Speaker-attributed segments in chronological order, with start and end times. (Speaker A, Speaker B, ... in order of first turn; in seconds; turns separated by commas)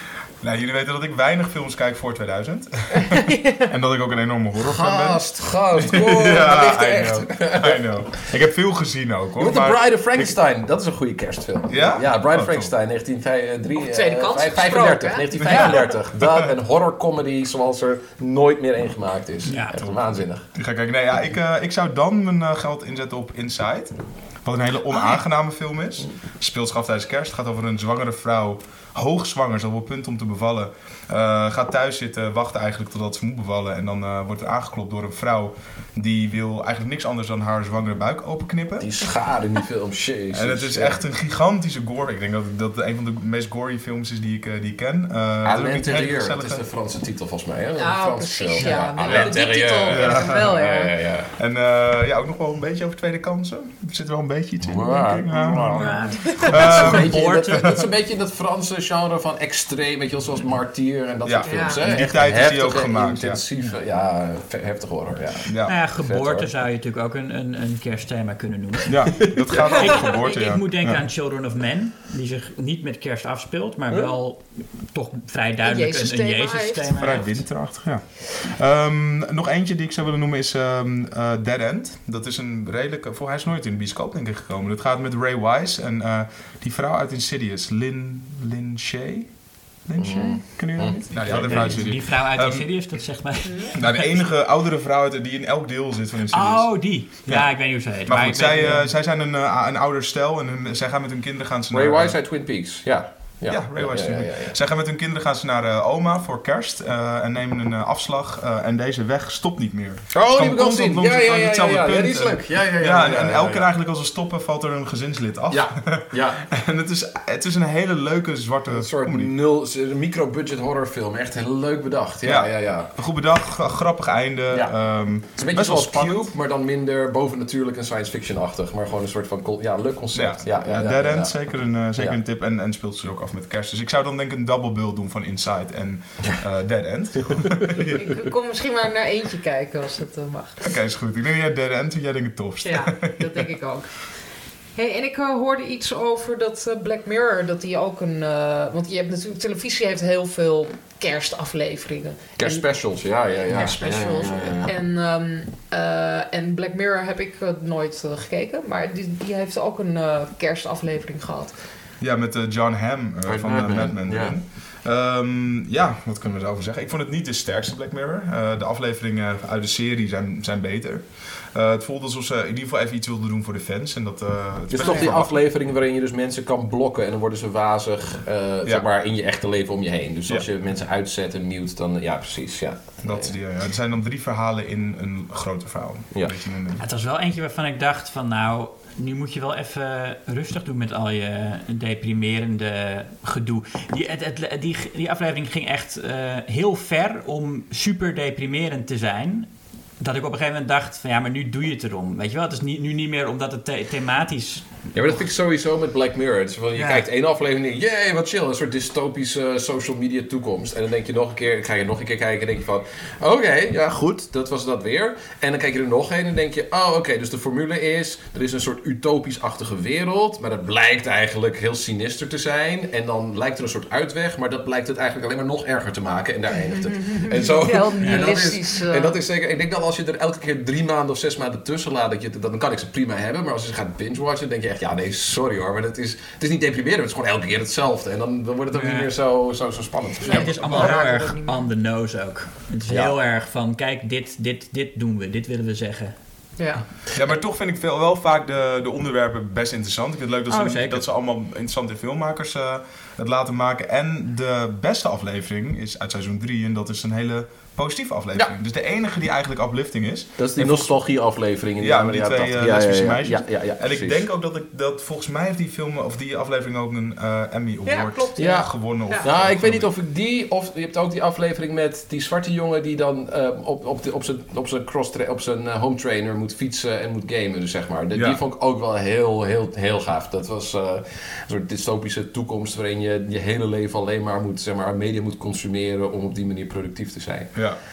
Speaker A: 0.4-5.2, Speaker B: 3.2-3.7, Speaker C: 4.6-7.8, Speaker A: 5.8-10.4, Speaker C: 9.4-20.4, Speaker A: 11.7-12.7, Speaker B: 13.8-15.3, Speaker A: 15.4-16.5, Speaker D: 15.5-15.8, Speaker D: 19.4-19.8, Speaker A: 19.8-23.9, Speaker A: 24.4-38.9, Speaker C: 38.8-41.0, Speaker A: 40.3-46.6, Speaker C: 45.4-51.3, Speaker B: 47.8-50.9, Speaker A: 49.0-49.3, Speaker A: 49.9-50.5, Speaker A: 51.4-57.9, Speaker C: 54.6-66.5, Speaker D: 55.7-57.7, Speaker A: 61.2-63.4, Speaker B: 61.4-61.8, Speaker A: 65.5-65.8, Speaker D: 65.6-77.4, Speaker A: 68.9-71.0, Speaker C: 69.4-69.7, Speaker C: 73.9-74.2, Speaker B: 75.6-76.9, Speaker A: 76.9-89.3, Speaker A: 89.8-92.7, Speaker C: 90.0-91.9, Speaker D: 91.2-94.2, Speaker A: 93.7-102.2, Speaker D: 96.3-98.9, Speaker C: 101.7-104.5, Speaker A: 103.5-119.3, Speaker C: 110.1-113.7, Speaker C: 115.5-116.4, Speaker C: 118.7-122.9, Speaker A: 122.2-126.3, Speaker C: 124.5-132.2, Speaker A: 130.1-138.0, Speaker C: 137.2-137.7, Speaker B: 138.0-140.6, Speaker A: 140.6-143.5, Speaker B: 142.6-143.9, Speaker B: 144.7-152.6, Speaker C: 152.4-154.7, Speaker B: 153.3-161.6, Speaker D: 153.5-154.5, Speaker A: 162.0-175.3, Speaker C: 163.2-164.3, Speaker C: 174.7-183.3, Speaker A: 183.0-186.8, Speaker D: 186.8-204.7, Speaker C: 204.9-241.1, Speaker D: 206.8-207.1, Speaker B: 226.9-229.1, Speaker D: 228.0-228.3, Speaker D: 238.7-239.1, Speaker B: 240.2-241.7, Speaker D: 240.2-246.1, Speaker C: 242.9-243.1, Speaker B: 246.6-246.8, Speaker A: 247.1-261.0, Speaker D: 250.5-251.0, Speaker C: 260.4-264.2, Speaker A: 261.8-269.9, Speaker B: 267.9-269.3, Speaker C: 268.4-268.7, Speaker C: 269.2-287.5, Speaker A: 278.1-278.4